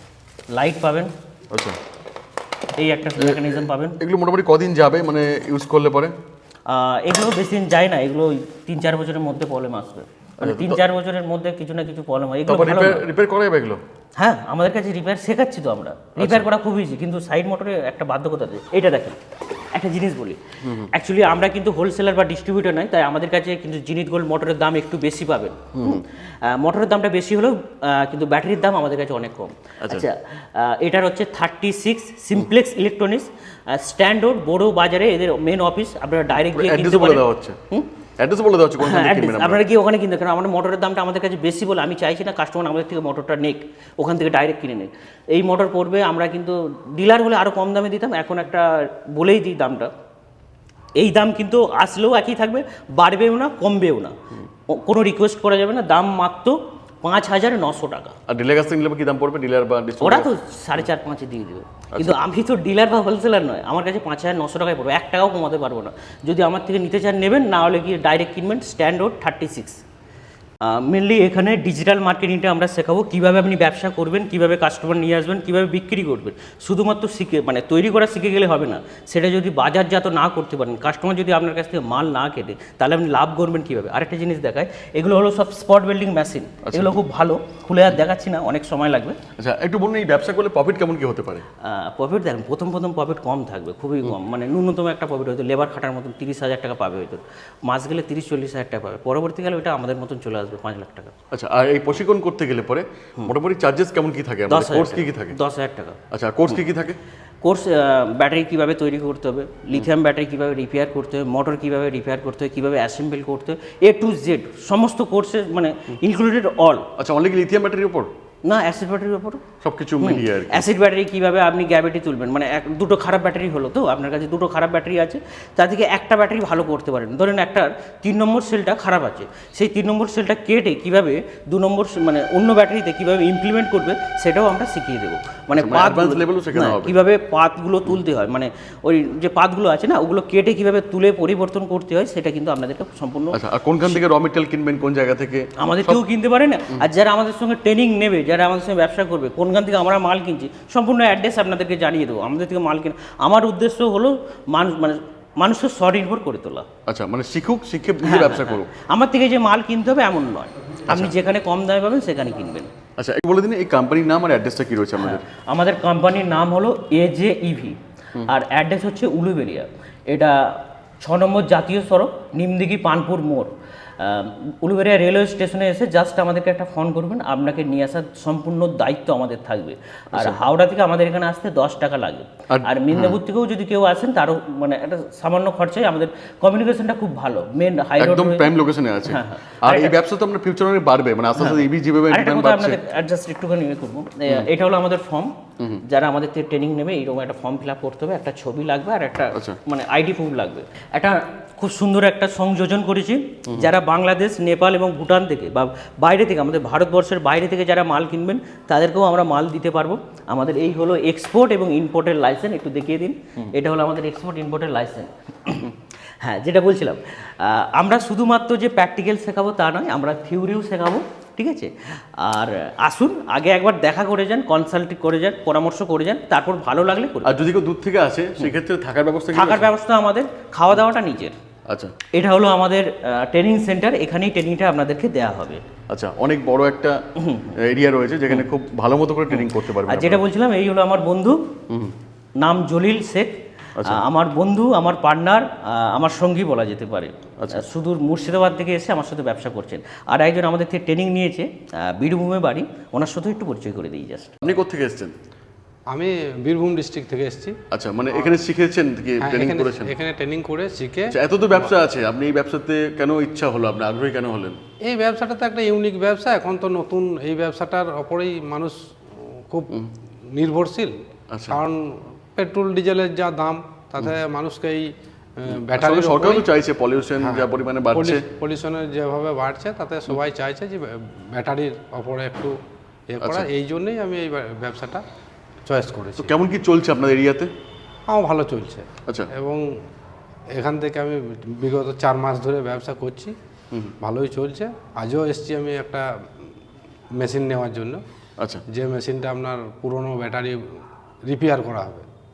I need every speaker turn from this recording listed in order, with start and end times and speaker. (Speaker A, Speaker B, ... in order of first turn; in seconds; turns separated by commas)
Speaker A: 0.5-1.1, Speaker B: 1.5-1.8, Speaker A: 2.8-4.0, Speaker B: 3.2-6.1, Speaker A: 6.7-13.1, Speaker B: 10.4-10.8, Speaker B: 12.5-13.8, Speaker A: 14.2-19.2, Speaker B: 16.1-16.5, Speaker A: 19.7-37.9, Speaker B: 20.6-20.9, Speaker B: 25.8-26.0, Speaker B: 29.8-30.1, Speaker B: 36.4-37.6, Speaker B: 38.2-39.6, Speaker A: 38.8-49.9, Speaker A: 51.0-54.1, Speaker A: 54.7-58.1, Speaker B: 58.3-60.3, Speaker A: 60.0-69.8, Speaker A: 70.6-89.2, Speaker B: 86.6-87.0, Speaker B: 89.4-91.5, Speaker A: 91.6-101.1, Speaker B: 101.3-105.4, Speaker A: 104.5-106.0, Speaker B: 106.1-107.0, Speaker A: 107.4-116.9, Speaker B: 117.0-118.1, Speaker A: 118.4-119.4, Speaker B: 119.6-120.7, Speaker A: 120.0-144.0, Speaker B: 135.5-137.0, Speaker B: 143.3-146.0, Speaker A: 145.6-156.7, Speaker B: 156.9-158.7, Speaker A: 158.0-162.7, Speaker B: 160.9-161.1, Speaker B: 163.0-165.2, Speaker A: 165.0-188.5, Speaker B: 180.1-180.4, Speaker B: 182.5-183.2, Speaker B: 188.0-192.8, Speaker A: 189.1-189.9, Speaker A: 191.4-227.3, Speaker B: 227.2-229.7, Speaker A: 229.3-231.4, Speaker B: 231.7-231.9, Speaker A: 232.1-235.6, Speaker B: 235.9-237.0, Speaker A: 237.2-237.6, Speaker B: 237.5-240.2, Speaker A: 239.3-241.4, Speaker B: 241.7-241.9, Speaker A: 242.4-254.4, Speaker B: 243.8-244.0, Speaker B: 254.4-255.2, Speaker C: 255.9-257.6, Speaker B: 257.7-259.9, Speaker C: 259.2-261.2, Speaker B: 261.1-264.6, Speaker C: 264.9-269.8, Speaker C: 270.3-276.5, Speaker B: 271.3-271.6, Speaker B: 275.5-278.2, Speaker C: 277.2-282.5, Speaker C: 283.1-285.0, Speaker B: 283.2-283.5, Speaker C: 285.6-286.3, Speaker B: 286.2-287.5, Speaker C: 288.1-289.6, Speaker C: 290.5-293.4, Speaker C: 294.0-296.1, Speaker C: 297.1-298.0, Speaker C: 298.7-302.1